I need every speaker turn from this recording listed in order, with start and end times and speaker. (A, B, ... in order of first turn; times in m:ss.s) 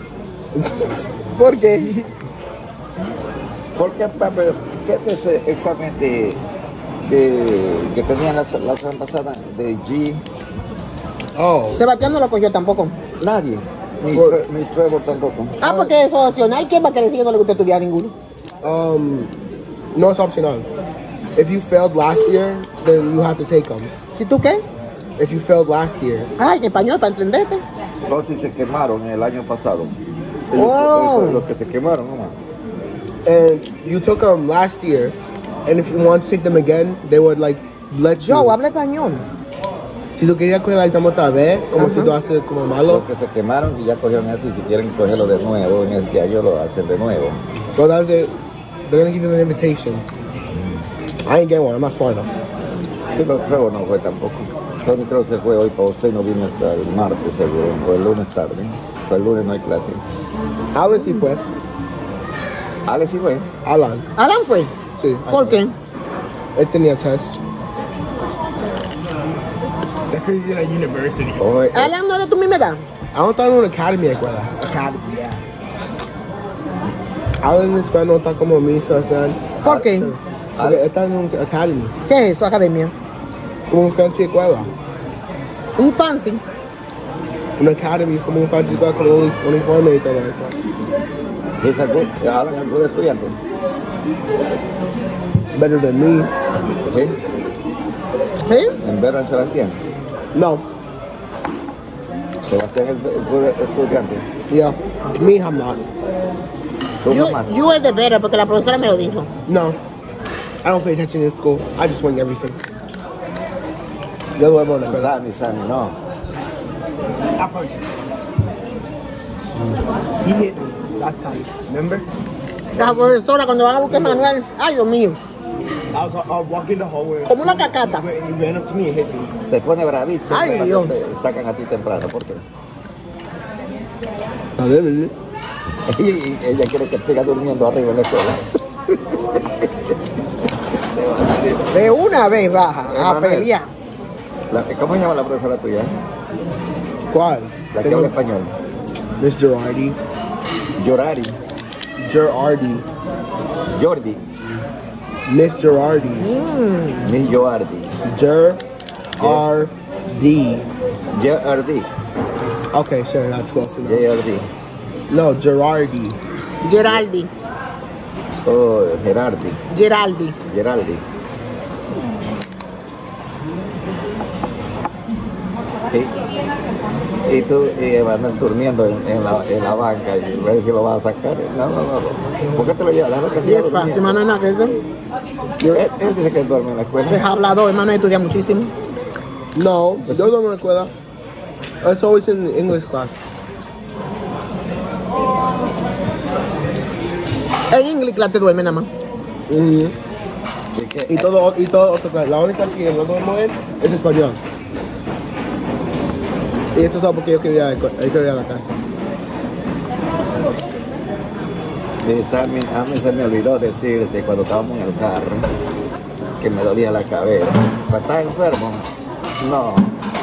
0:00.5-0:01.0 A
0:01.4-0:02.0 B
0:03.8-0:06.4 C
0:07.0-0:10.2 C
0:11.4-0:11.8 A
0:11.8-0:13.0 B
0:13.2-0:15.5 C
0:14.1-0:14.5 A
0:15.6-0:15.9 A
0:15.6-0:18.1 B
0:18.6-0:19.3 A
0:19.9-0:20.7 A
0:21.4-0:23.9 A
0:24.1-0:24.6 B
0:25.2-0:26.3 A
0:26.4-0:27.6 B
0:28.1-0:30.0 C
0:30.5-0:32.4 C
0:30.5-0:31.4 B
0:33.2-0:38.6 A
0:38.2-0:39.2 B
0:40.2-0:43.0 A
0:41.8-0:42.2 B
0:42.9-0:47.4 C
0:47.8-0:48.3 A
0:48.9-0:50.0 A
0:50.5-0:50.9 C
0:51.2-0:52.3 A
0:53.1-1:00.0 C
1:00.7-1:01.4 A
1:02.9-1:03.5 C
1:03.6-1:04.1 A
1:04.2-1:04.7 B
1:05.0-1:05.6 A
1:05.3-1:05.8 B
1:06.6-1:07.4 A
1:10.1-1:11.5 D
1:11.4-1:11.9 C
1:11.7-1:12.9 B
1:13.1-1:14.5 A
1:14.5-1:15.4 D
1:17.4-1:22.0 A
1:19.6-1:20.1 B
1:19.6-1:19.9 C
1:20.6-1:20.8 C
1:22.1-1:22.9 B
1:23.7-1:24.7 A
1:25.8-1:26.4 B
1:27.6-1:30.6 A
1:31.6-1:33.4 C
1:35.5-1:36.3 A
1:36.8-1:37.2 C
1:38.4-1:38.8 B
1:38.8-1:39.8 C
1:40.3-1:40.6 A
1:42.5-1:44.3 C
1:44.5-1:45.8 A
1:47.0-1:47.6 C
1:47.1-1:49.3 B
1:49.5-1:49.8 A
1:50.6-1:52.6 A
1:54.4-1:55.1 A
1:54.8-1:56.0 C
1:57.4-1:57.8 D
2:00.2-2:02.0 D
2:02.8-2:05.2 B
2:02.8-2:03.1 D
2:03.9-2:04.3 D
2:05.9-2:09.3 D
2:07.3-2:08.1 B
2:09.5-2:12.4 C
2:10.3-2:10.9 B
2:14.6-2:15.1 A
2:15.9-2:20.0 C
2:20.7-2:21.7 C
2:21.7-2:23.7 B
2:22.9-2:23.5 C
2:24.5-2:26.0 C
2:27.1-2:28.1 A
2:27.7-2:28.5 C
2:29.2-2:30.0 A
2:30.8-2:31.4 C
2:32.0-2:32.8 A
2:33.7-2:34.2 C
2:35.3-2:36.2 A
2:36.2-2:37.1 B
2:37.0-2:38.0 C
2:38.0-2:38.6 A
2:39.2-2:40.7 A
2:39.2-2:39.5 C
2:41.1-2:41.9 C
2:42.7-2:44.1 A
2:43.8-2:44.5 C
2:45.1-2:46.2 A
2:46.6-2:47.3 B
2:48.4-2:49.6 C
2:49.7-2:50.4 B
2:50.5-2:51.0 C
2:55.9-2:56.3 C
2:57.3-3:04.2 C
3:03.4-3:04.8 B
3:05.6-3:05.9 A
3:05.7-3:07.2 C
3:07.1-3:08.7 B
3:09.5-3:10.9 A
3:11.8-3:13.2 A
3:17.7-3:18.9 B
3:19.5-3:20.0 A
3:20.7-3:21.3 C
3:21.1-3:24.4 A
3:26.8-3:28.8 A
3:32.0-3:35.5 C
3:36.4-3:39.9 C